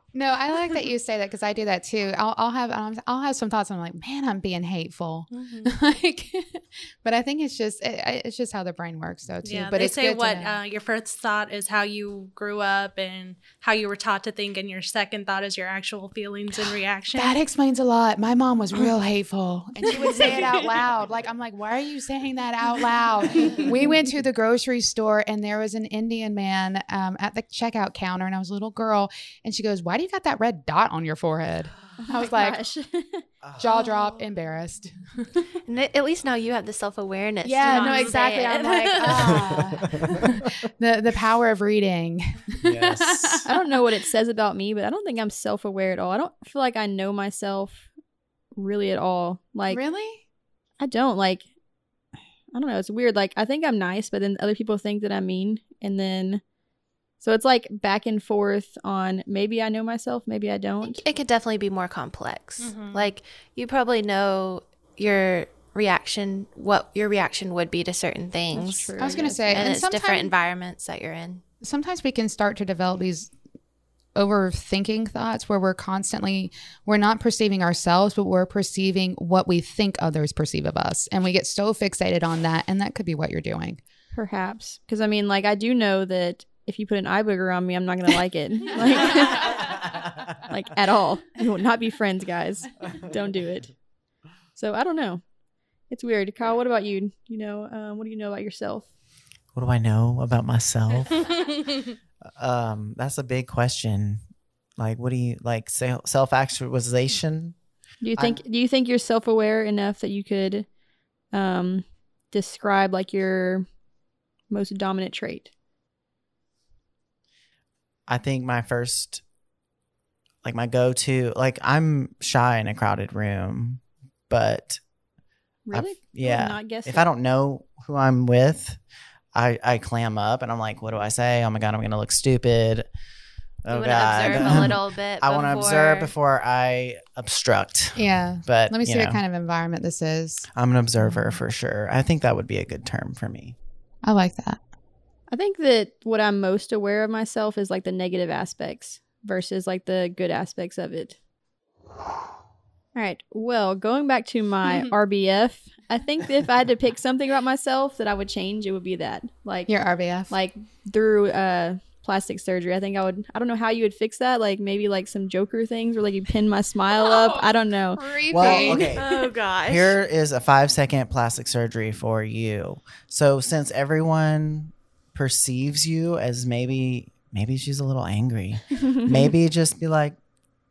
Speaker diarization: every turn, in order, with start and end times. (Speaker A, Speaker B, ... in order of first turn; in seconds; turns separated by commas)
Speaker A: 0.1-10.6, Speaker B: 5.3-5.7, Speaker B: 9.4-17.4, Speaker A: 17.1-32.6, Speaker B: 19.9-20.6, Speaker C: 32.0-33.2, Speaker D: 33.4-33.8, Speaker A: 33.6-35.4, Speaker E: 35.6-39.4, Speaker A: 37.4-43.5, Speaker B: 37.6-38.2, Speaker D: 39.1-40.1, Speaker D: 42.6-43.5, Speaker C: 43.5-47.9, Speaker C: 48.5-49.8, Speaker A: 49.7-50.2, Speaker C: 50.8-51.5, Speaker C: 52.5-56.4, Speaker C: 57.2-61.0, Speaker E: 60.8-69.0, Speaker B: 62.6-63.1, Speaker C: 68.5-69.6, Speaker A: 69.0-70.3, Speaker E: 69.5-71.4, Speaker A: 71.6-73.3, Speaker A: 74.1-83.8, Speaker C: 84.1-89.8, Speaker C: 90.4-93.7, Speaker C: 94.5-95.2, Speaker C: 95.9-98.9, Speaker D: 99.5-101.5, Speaker D: 102.2-104.2, Speaker D: 104.8-107.5, Speaker C: 108.0-110.7, Speaker D: 108.2-108.4, Speaker C: 111.3-113.7, Speaker C: 114.5-115.5, Speaker D: 118.1-119.2, Speaker D: 120.4-124.8, Speaker C: 125.7-127.1, Speaker D: 125.7-128.8, Speaker D: 129.3-132.9, Speaker D: 133.6-139.2, Speaker E: 133.7-136.1, Speaker A: 137.9-140.5, Speaker D: 140.5-143.6, Speaker A: 144.0-144.6, Speaker C: 145.3-151.2, Speaker C: 152.9-159.7, Speaker A: 159.7-160.3, Speaker C: 160.3-168.8, Speaker A: 167.9-169.0, Speaker D: 168.3-180.2, Speaker E: 168.8-170.0, Speaker C: 178.9-179.2